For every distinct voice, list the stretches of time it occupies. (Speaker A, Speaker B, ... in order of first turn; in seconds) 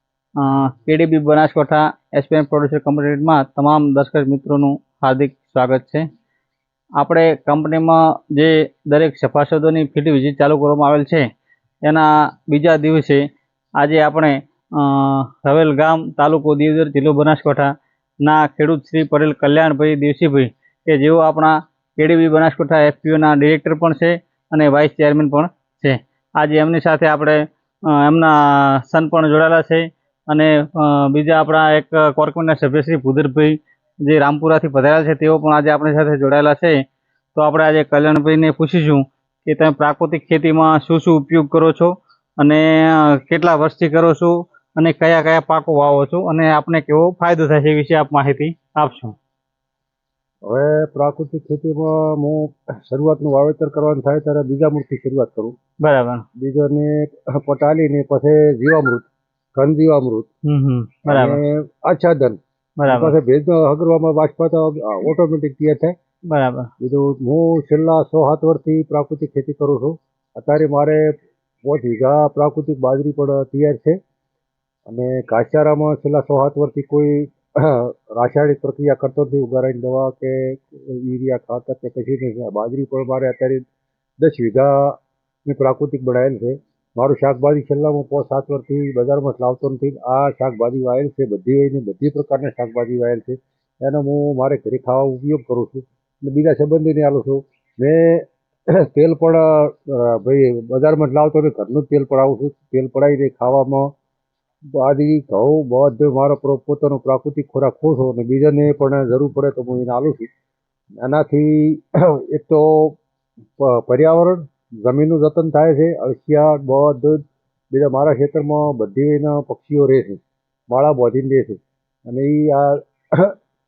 Speaker A: 0.4-6.0, 7.0-11.2, 11.8-13.2, 13.8-17.7, 18.2-36.8, 37.4-49.1, 55.8-56.2, 60.5-61.4, 62.8-63.1, 66.3-66.7
Speaker B: 50.4-55.5, 56.4-60.3, 61.1-65.9, 66.8-71.1, 71.6-74.0, 74.9-83.6, 84.2-98.3, 98.8-103.9, 104.7-110.3, 111.0-113.0, 113.6-123.3